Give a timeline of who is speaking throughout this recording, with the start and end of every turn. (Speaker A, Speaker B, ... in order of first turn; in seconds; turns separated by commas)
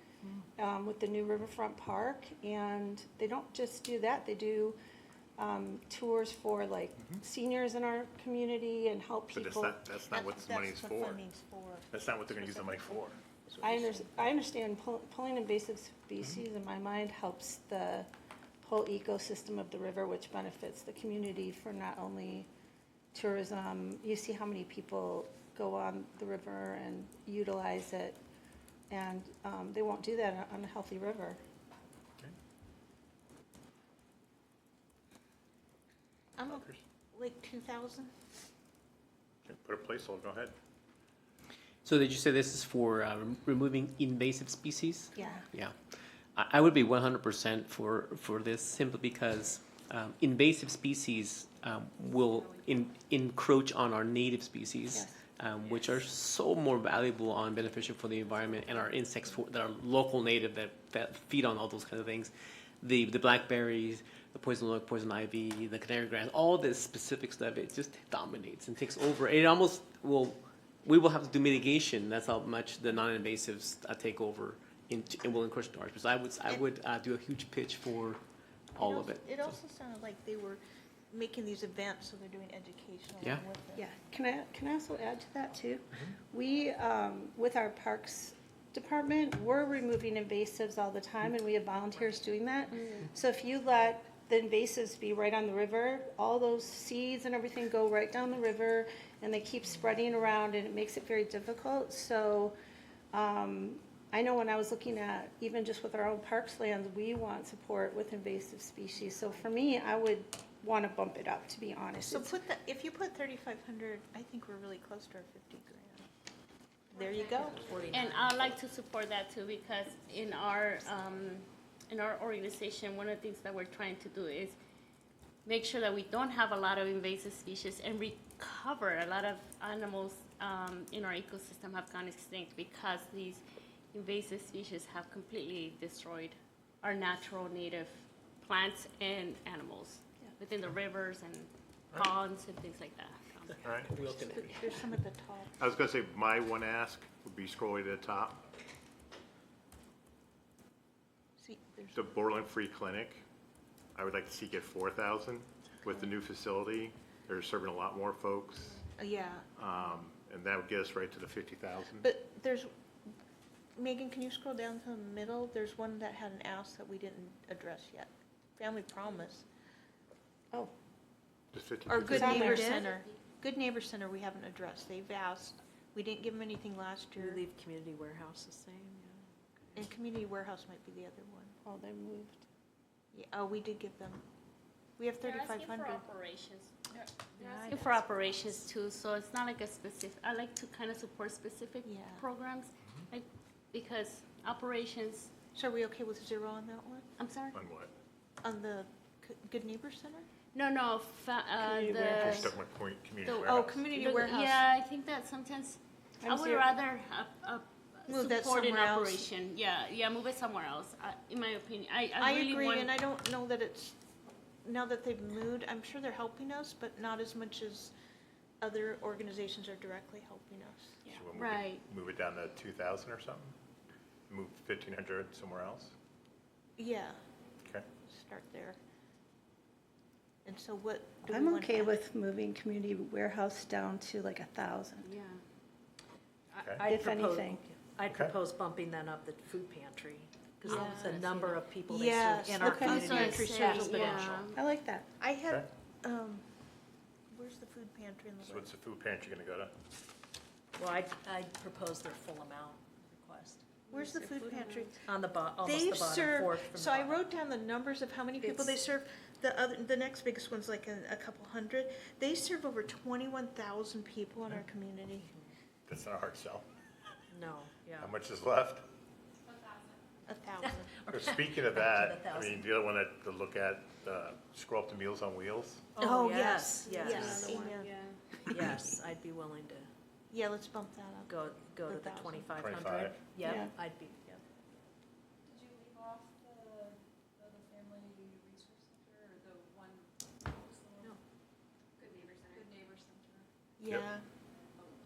Speaker A: 0.6-4.8, Speaker A: 5.4-9.8, Speaker B: 9.3-11.2, Speaker C: 10.1-14.1, Speaker B: 11.9-13.2, Speaker A: 13.6-18.1, Speaker A: 18.6-22.5, Speaker A: 23.1-28.2, Speaker A: 28.9-31.4, Speaker C: 36.4-38.1, Speaker B: 36.5-36.8, Speaker B: 39.5-40.5, Speaker D: 41.8-45.8, Speaker A: 45.2-45.5, Speaker D: 46.4-78.2, Speaker A: 54.9-55.2, Speaker D: 78.8-79.6, Speaker C: 78.8-83.8, Speaker A: 83.8-102.5, Speaker E: 92.8-93.1, Speaker A: 103.1-112.3, Speaker C: 112.1-116.1, Speaker C: 116.9-117.7, Speaker F: 117.6-118.5, Speaker E: 117.9-124.6, Speaker E: 125.4-133.4, Speaker E: 133.9-143.7, Speaker B: 143.6-143.9, Speaker D: 143.7-144.9, Speaker C: 144.3-145.5, Speaker B: 145.6-148.4, Speaker C: 151.4-152.1, Speaker B: 151.9-153.2, Speaker B: 153.9-158.9, Speaker C: 159.0-159.5, Speaker B: 159.6-162.1, Speaker C: 162.0-162.7, Speaker C: 163.8-169.4, Speaker B: 171.5-172.7, Speaker C: 171.9-177.4, Speaker F: 172.0-172.9, Speaker A: 172.1-172.7, Speaker F: 177.2-179.9, Speaker C: 179.8-181.6, Speaker A: 181.6-182.4, Speaker C: 183.1-184.2, Speaker C: 185.0-186.1, Speaker E: 185.2-195.3, Speaker F: 187.4-188.3, Speaker C: 191.8-192.2, Speaker C: 195.5-197.1, Speaker E: 197.2-197.6, Speaker B: 197.5-197.9, Speaker C: 198.4-200.3, Speaker E: 200.5-202.6, Speaker A: 201.6-202.5, Speaker B: 202.0-203.8, Speaker E: 203.3-212.9, Speaker C: 203.4-204.7, Speaker A: 206.2-206.7, Speaker C: 208.1-209.3, Speaker C: 212.2-213.9, Speaker C: 214.6-217.9, Speaker C: 218.6-221.2, Speaker B: 221.1-223.6, Speaker E: 221.3-221.8, Speaker B: 224.3-225.9, Speaker C: 226.8-227.2, Speaker B: 227.6-227.9, Speaker C: 228.1-228.8, Speaker C: 230.4-232.0, Speaker A: 231.3-235.1, Speaker E: 235.0-235.4, Speaker F: 236.5-244.5, Speaker B: 236.6-236.9, Speaker A: 236.8-237.6, Speaker B: 238.1-238.3, Speaker C: 240.7-241.3, Speaker E: 240.7-241.6, Speaker C: 241.9-244.5, Speaker A: 242.6-243.3, Speaker E: 242.7-244.6, Speaker A: 244.5-245.1, Speaker C: 245.2-246.5, Speaker C: 247.3-248.7, Speaker B: 248.4-249.7, Speaker F: 250.8-253.8, Speaker E: 253.9-255.0, Speaker C: 253.9-255.0, Speaker F: 255.1-257.3, Speaker C: 255.6-265.3, Speaker F: 258.4-258.8, Speaker B: 265.9-266.7, Speaker F: 267.3-268.1, Speaker B: 268.0-268.9, Speaker C: 270.3-270.9, Speaker F: 270.6-272.7, Speaker B: 271.1-275.8, Speaker F: 275.9-277.8, Speaker C: 276.0-277.9, Speaker E: 276.8-278.4, Speaker C: 278.5-278.7, Speaker F: 278.5-279.9, Speaker C: 280.3-282.6, Speaker F: 281.3-284.5, Speaker B: 282.6-283.2, Speaker A: 283.4-283.7, Speaker G: 285.6-286.9, Speaker G: 287.5-288.7, Speaker G: 289.5-290.0, Speaker G: 292.1-293.2, Speaker C: 293.8-294.3